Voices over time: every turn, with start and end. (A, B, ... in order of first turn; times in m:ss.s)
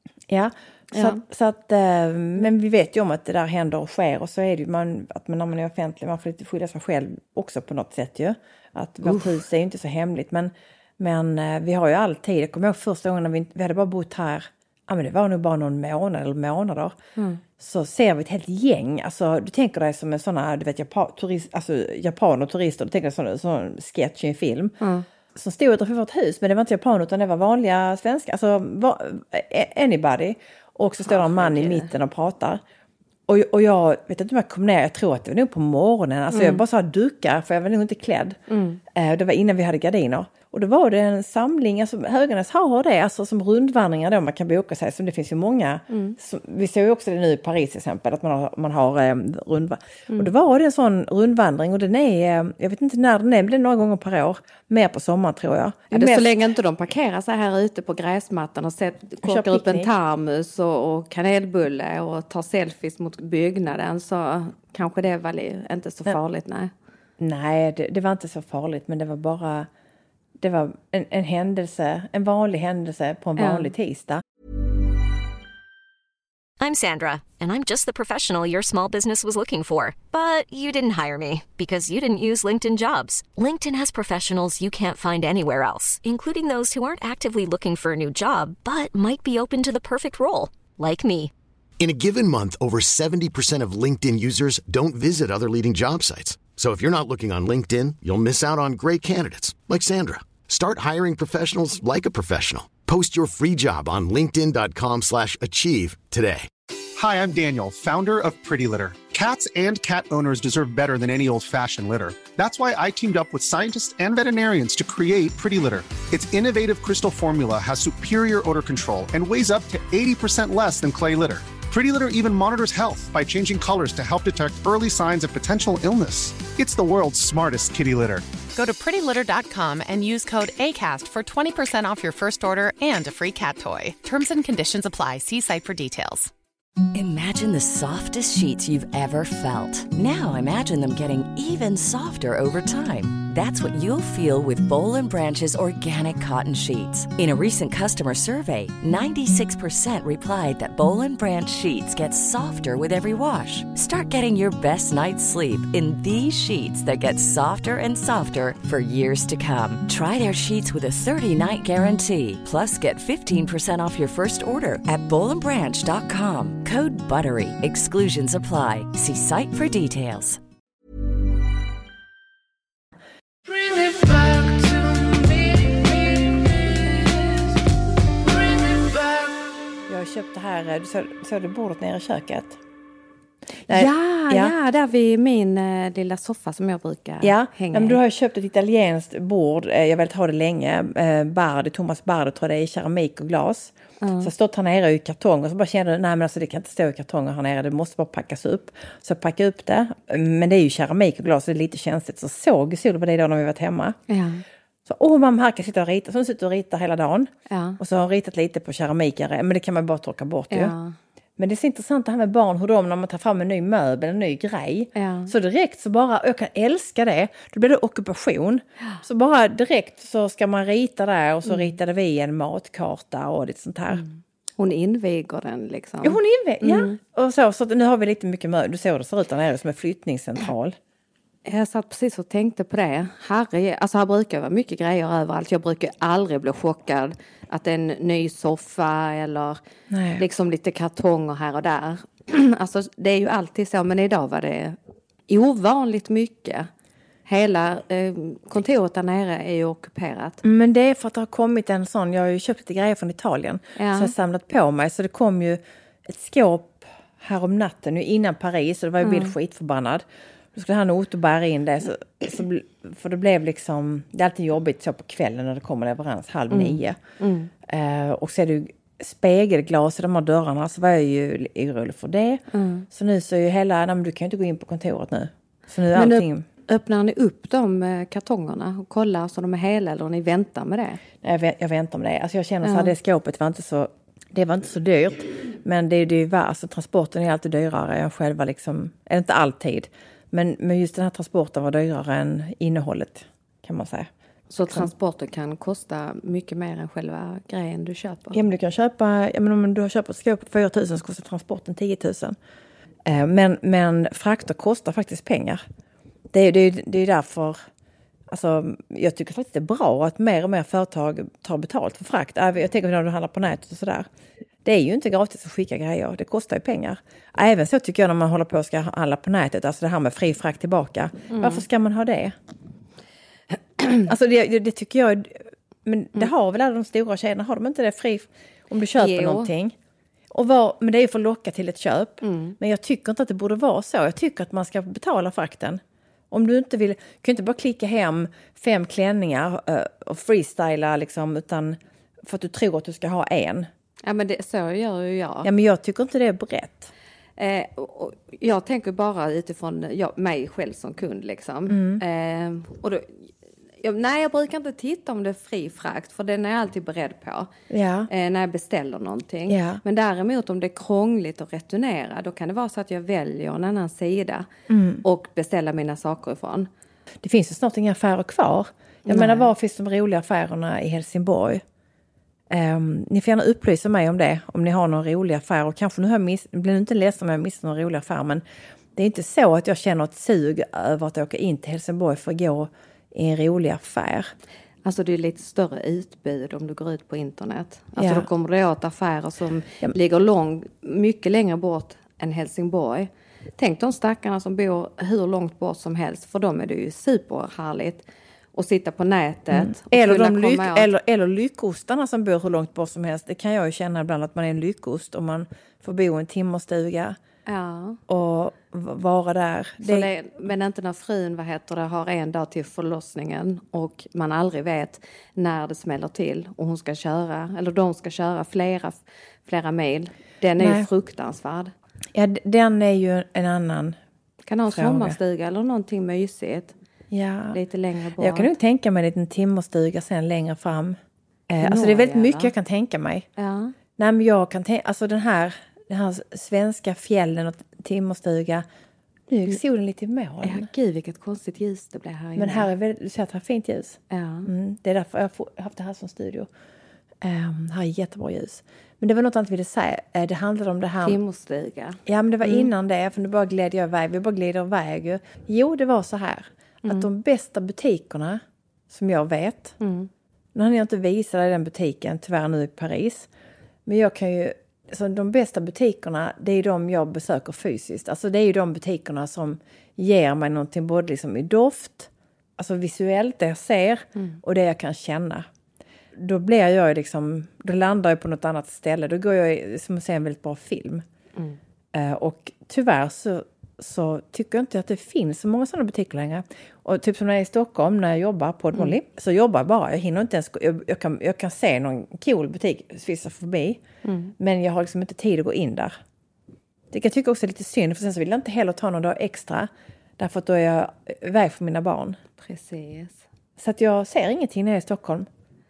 0:00.3-0:17.0 A
0:00.9-0:01.2 B
0:09.0-0:09.3 B
0:17.2-0:17.4 B
0:17.6-0:24.8 A
0:25.3-0:32.6 A
0:31.0-0:31.9 B
0:33.3-0:38.4 A
0:36.3-0:36.6 B
0:38.5-0:38.8 B
0:38.9-0:56.3 A
0:45.9-0:46.2 B
0:55.9-1:06.7 B
0:59.2-0:59.9 A
1:07.2-1:09.7 A
1:10.4-1:14.2 A
1:13.4-1:13.7 B
1:16.6-1:31.3 C
1:31.8-1:46.5 D
1:47.0-2:08.2 E
2:08.5-2:16.3 F
2:16.9-2:50.4 G
2:59.9-3:02.6 A
3:03.7-3:04.5 A
3:03.7-3:08.0 B
3:07.2-3:24.0 A
3:14.0-3:14.3 B
3:24.1-3:24.4 B
3:24.8-3:30.7 A
3:27.5-3:27.8 B
3:30.5-3:31.0 B
3:31.4-3:44.0 A
3:34.9-3:35.3 B
3:41.4-3:41.7 B
3:44.0-3:47.0 B
3:46.0-3:50.8 A
3:51.4-3:59.6 B
3:59.9-4:00.2 A
4:00.2-4:04.8 B
4:05.3-4:06.7 B
4:07.2-4:10.4 B
4:10.4-4:27.0 A
4:13.8-4:14.1 B
4:19.0-4:19.3 B
4:26.5-4:27.5 B
4:27.6-4:36.5 A
4:32.5-4:32.8 B
4:35.9-4:41.0 B
4:41.2-4:54.1 A
4:42.6-4:42.9 B
4:54.5-4:58.4 B
4:58.3-5:02.4 A
5:03.0-5:05.6 A
5:06.3-5:07.6 A
5:08.3-5:14.1 A
5:14.6-5:22.3 A
5:21.3-5:21.6 B
5:24.0-5:29.7 A
5:29.0-5:29.5 B
5:30.3-5:43.7 A
5:32.2-5:32.6 B
5:44.0-5:45.5 B
5:45.4-5:46.9 A
5:47.4-5:53.3 B
5:51.7-5:52.0 A
5:53.8-5:57.5 B
5:57.7-5:58.1 A
5:58.1-6:04.5 B
5:59.5-5:59.8 A
6:04.7-6:05.0 A
6:05.0-6:06.7 B
6:07.2-6:11.6 A
6:09.0-6:09.5 B
6:12.5-6:18.4 A
6:18.9-6:24.3 A
6:24.8-6:40.9 B
6:28.0-6:28.3 A
6:39.5-6:47.2 A
6:47.5-6:48.0 B
6:48.1-6:50.1 A
6:49.8-7:01.7 B
7:00.6-7:00.8 A
7:02.1-7:04.0 A
7:04.5-7:06.7 B
7:04.7-7:05.2 A
7:07.1-7:07.6 A
7:07.5-7:08.5 B
7:08.2-7:11.0 A
7:11.5-7:13.3 A
7:11.6-7:12.5 B
7:13.4-7:13.7 B
7:14.0-7:18.6 A
7:19.3-7:20.7 A
7:20.4-7:22.7 B
7:22.4-7:26.5 A
7:24.1-7:24.5 B
7:27.2-7:31.2 A
7:31.0-7:32.7 B
7:32.0-7:39.8 A
7:39.8-7:40.1 B
7:40.5-7:43.3 A
7:43.8-7:55.5 A
7:54.1-7:54.4 B
7:56.2-8:01.0 A
8:01.9-8:13.8 A
8:14.0-8:14.3 B
8:14.4-8:16.0 A
8:16.9-8:22.2 A
8:22.4-8:23.2 B
8:23.6-8:25.3 A